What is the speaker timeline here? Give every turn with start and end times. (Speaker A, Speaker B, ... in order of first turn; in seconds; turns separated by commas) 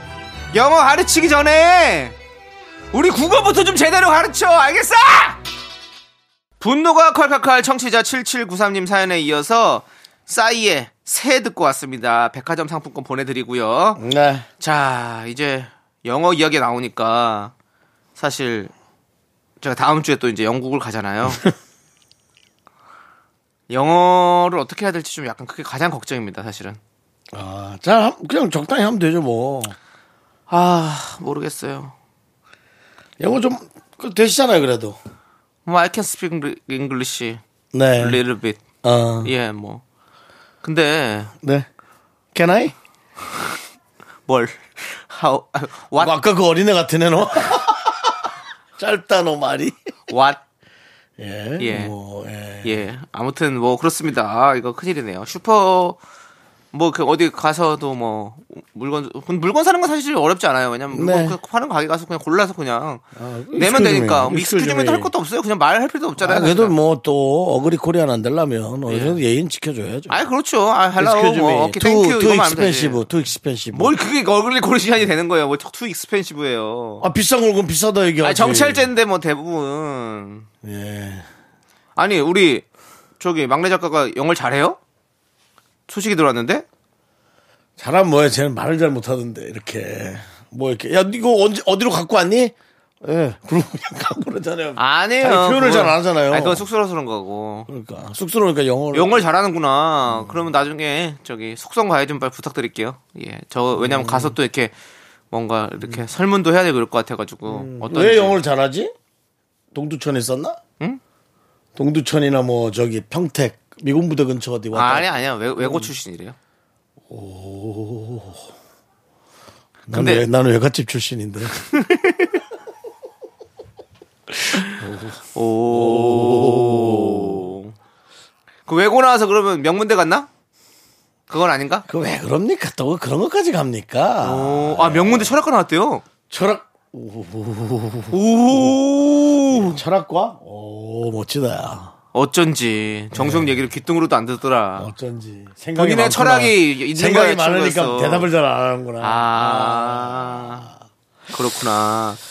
Speaker A: 0.5-2.1, Speaker A: 2.9-5.4, Speaker A: 6.6-14.0, Speaker B: 14.0-14.5, Speaker A: 14.6-17.5, Speaker A: 18.2-18.7, Speaker A: 19.6-21.4, Speaker A: 23.7-26.8, Speaker B: 27.3-29.8, Speaker A: 30.5-31.9, Speaker B: 33.2-35.0, Speaker A: 35.7-37.4, Speaker B: 37.7-38.2, Speaker A: 38.0-38.6, Speaker B: 38.8-39.3, Speaker A: 39.2-39.8, Speaker A: 40.6-41.3, Speaker B: 42.3-42.8, Speaker A: 44.3-46.1, Speaker B: 46.0-48.1, Speaker B: 48.8-49.9, Speaker A: 50.1-50.4, Speaker B: 51.2-52.9, Speaker A: 51.6-51.9, Speaker A: 52.6-56.0, Speaker A: 56.7-63.0, Speaker B: 60.9-61.4, Speaker B: 63.2-65.1, Speaker A: 63.5-66.8, Speaker B: 66.2-70.2, Speaker A: 68.9-69.2, Speaker A: 70.1-73.0, Speaker B: 71.0-74.0, Speaker A: 73.7-77.1, Speaker B: 77.0-78.9, Speaker A: 78.2-80.5, Speaker B: 80.6-81.3, Speaker A: 82.0-82.7, Speaker A: 83.2-84.8, Speaker A: 85.9-86.7, Speaker B: 87.8-96.7, Speaker A: 94.8-97.7, Speaker B: 97.7-99.2, Speaker A: 98.9-104.7, Speaker B: 100.1-100.5, Speaker B: 103.8-104.4, Speaker A: 105.3-108.4, Speaker B: 107.5-108.9, Speaker B: 109.7-110.6, Speaker B: 111.8-115.9, Speaker A: 114.7-116.4, Speaker B: 117.1-118.4, Speaker B: 119.9-121.7, Speaker A: 119.9-120.3, Speaker A: 121.7-122.3, Speaker B: 124.7-127.5, Speaker A: 125.3-127.7, Speaker A: 128.7-130.3, Speaker A: 131.3-131.9, Speaker B: 131.9-135.3, Speaker A: 134.2-136.0, Speaker B: 136.3-138.8, Speaker A: 138.1-139.8, Speaker B: 139.5-141.9, Speaker A: 142.1-144.9, Speaker B: 143.1-143.6, Speaker B: 144.8-150.7, Speaker A: 145.8-148.3, Speaker A: 149.0-150.7, Speaker A: 151.3-152.2